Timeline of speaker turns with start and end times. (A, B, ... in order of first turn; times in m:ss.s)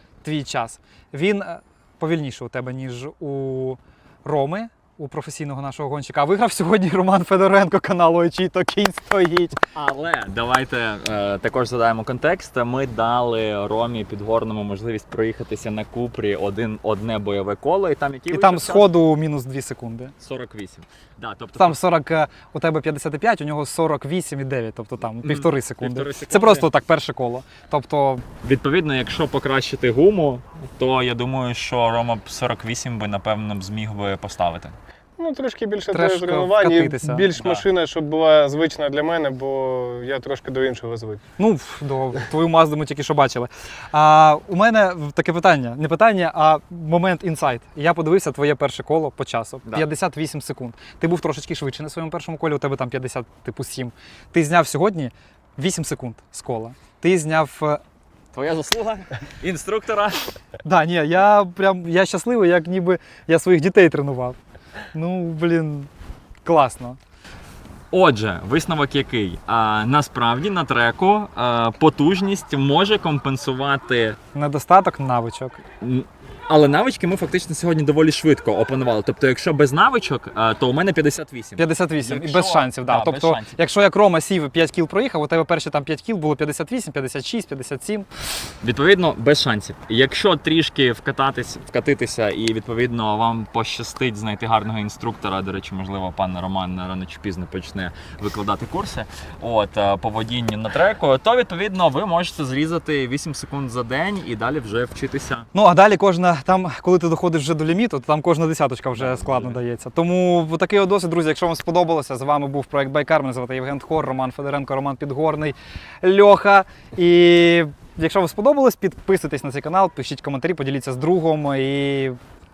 0:00.2-0:09.6 A
0:09.8-0:18.9 B
0:18.3-0:20.1 A
0:20.2-0:21.8 B
0:21.6-0:28.2 A
0:25.2-0:26.7 B
0:28.4-0:34.8 B
0:35.2-0:41.2 C
0:35.9-0:37.4 A
0:41.4-0:57.8 A
0:58.3-1:00.3 B
1:00.6-1:04.4 A
1:04.9-1:05.9 A
1:06.4-1:07.0 A
1:07.9-1:14.2 B
1:14.4-1:15.6 A
1:15.8-1:23.6 B
1:21.6-1:28.1 A
1:28.6-1:45.5 B
1:45.5-2:02.2 A
1:49.0-1:49.6 B